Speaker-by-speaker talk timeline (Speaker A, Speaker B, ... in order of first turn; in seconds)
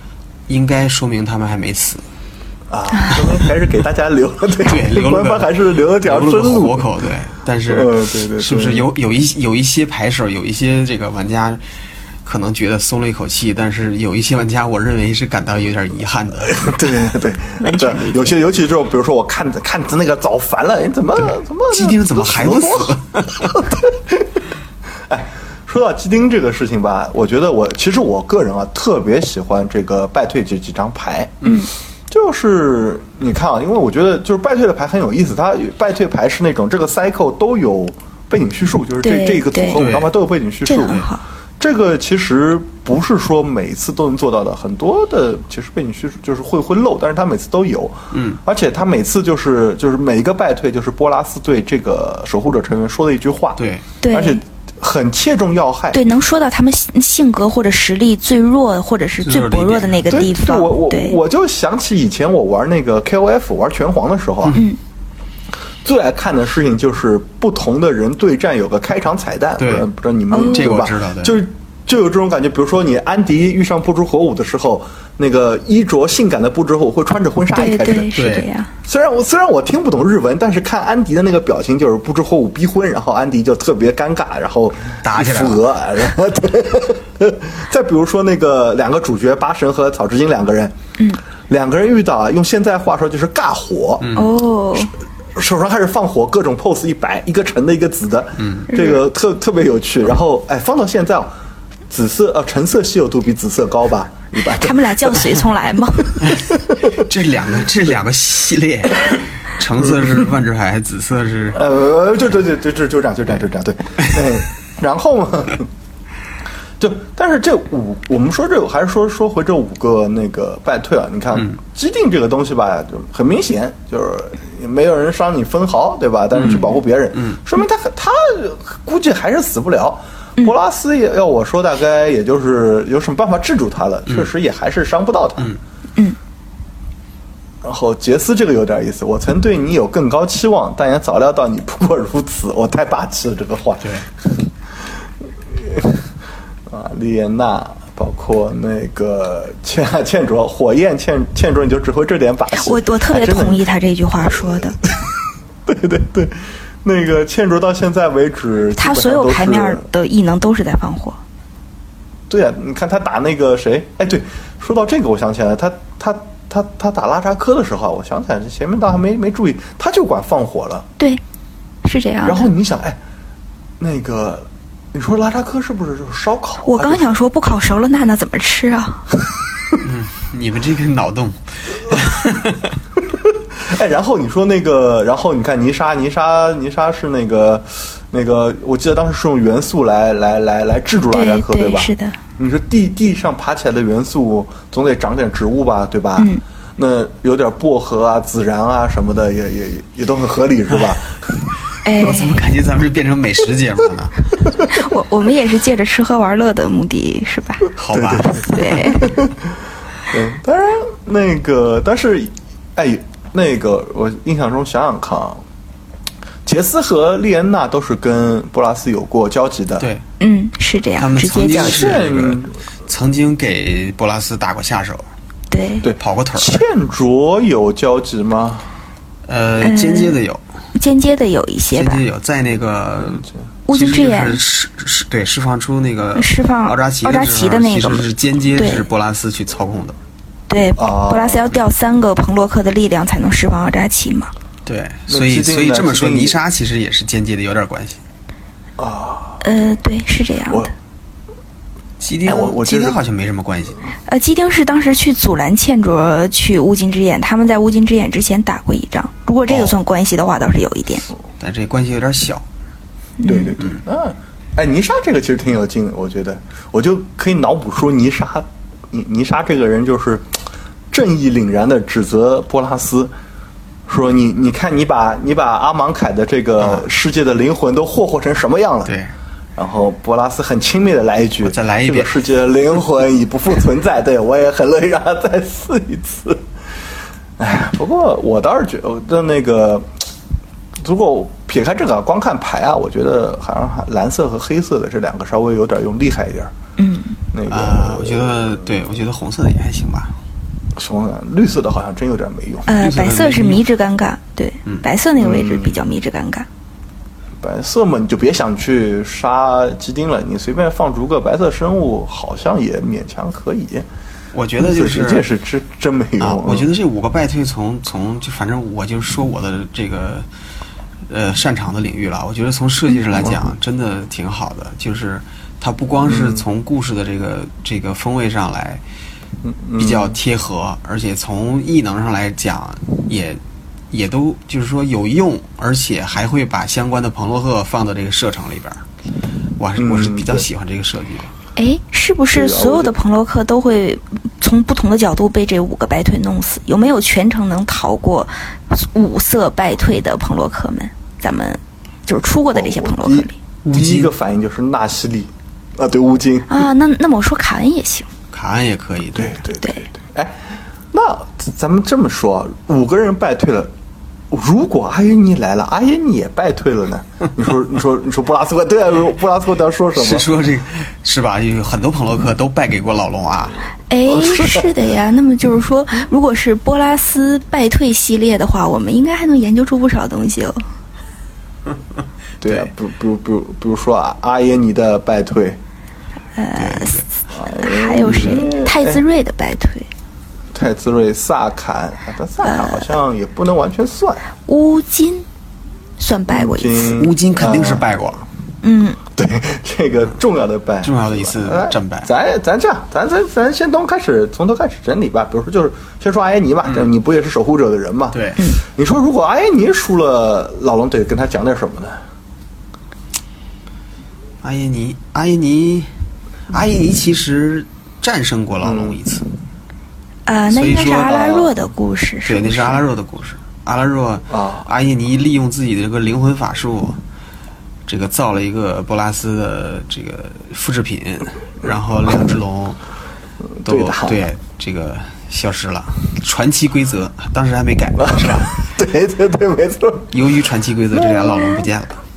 Speaker A: 0.5-2.0, 4.6-11.6, 12.2-16.6, 21.7-23.6, 39.7-40.1, 48.1-48.4, 53.6-53.8, 59.2-60.3, 69.6-69.9, 70.5-71.4, 78.1-78.5, 85.0-85.6, 94.0-94.3, 98.4-98.7, 106.9-111.6, 126.4-126.7, 179.8-182.7, 202.0-204.3, 207.8-208.8, 219.8-220.0, 221.0-225.1, 226.0-226.6, 229.2-230.4, 231.7-239.9, 244.7-248.0, 252.0-253.8, 261.4-262.4, 278.9-279.1, 281.4-282.2, 297.5-300.1, 302.7-303.6, 314.3-315.3, 316.2-320.2, 321.1-328.8, 329.8-333.4, 333.9-338.8, 339.6-341.3, 353.6-354.1, 358.3-359.4, 369.9-373.6, 386.6-387.0, 388.0-388.4, 397.0-398.2, 400.8-402.1, 408.1-408.4, 414.4-415.9, 416.5-419.2, 420.5-421.2, 422.2-427.0, 427.9-432.8, 433.6-438.6, 440.1-442.0
Speaker B: 2.7-6.9, 7.7-8.9, 16.5-24.4, 25.1-31.5, 32.1-41.1, 41.6-56.0, 60.1-64.6, 65.8-78.1, 78.8-90.7, 91.5-94.1, 95.3-101.3, 101.9-105.3, 106.3-107.0, 111.5-115.7, 116.8-135.5, 137.6-144.5, 145.5-146.1, 146.7-153.6, 154.8-155.1, 155.7-159.8, 162.3-170.9, 172.2-173.0, 173.8-177.1, 183.1-201.5, 207.9-209.6, 210.1-215.4, 216.4-219.9, 221.4-222.5, 225.8-228.7, 240.8-241.5, 245.1-246.4, 248.8-249.4, 252.2-253.0, 263.2-270.4, 270.9-273.1, 273.9-278.9, 279.6-286.4, 287.4-289.9, 290.8-296.5, 297.3-298.6, 300.7-302.7, 305.2-305.8, 307.4-313.9, 314.6-316.7, 326.1-326.4, 329.4-330.2, 339.8-340.5, 342.3-342.9, 352.5-356.6, 359.1-363.7, 364.3-370.3, 374.1-374.7, 382.4-385.6, 387.3-389.0, 390.5-394.2, 396.3-397.9, 399.1-412.0, 418.6-419.0, 421.1-421.5, 424.3-424.6, 433.6-434.2, 438.0-440.2, 440.9-441.6
Speaker C: 17.6-18.3, 31.4-31.7, 39.0-39.8, 40.6-41.2, 54.0-54.4, 55.9-61.2, 64.5-64.8, 70.3-70.7, 77.5-78.7, 94.1-94.9, 98.7-99.0, 104.5-106.3, 152.5-154.8, 158.8-161.2, 171.8-172.5, 176.6-179.1, 191.1-192.2, 196.2-196.4, 201.8-202.4, 204.7-207.7, 208.5-209.1, 220.2-221.9, 225.5-225.9, 229.6-230.2, 230.7-232.0, 233.7-234.4, 236.1-238.9, 240.5-244.3, 249.4-250.7, 254.1-261.1, 263.2-263.6, 296.8-297.2, 302.7-306.5, 341.6-353.3, 356.5-358.1, 373.9-380.6, 386.4-389.9, 392.4-392.8, 394.5-395.2, 396.0-397.0, 398.6-399.0, 420.2-422.8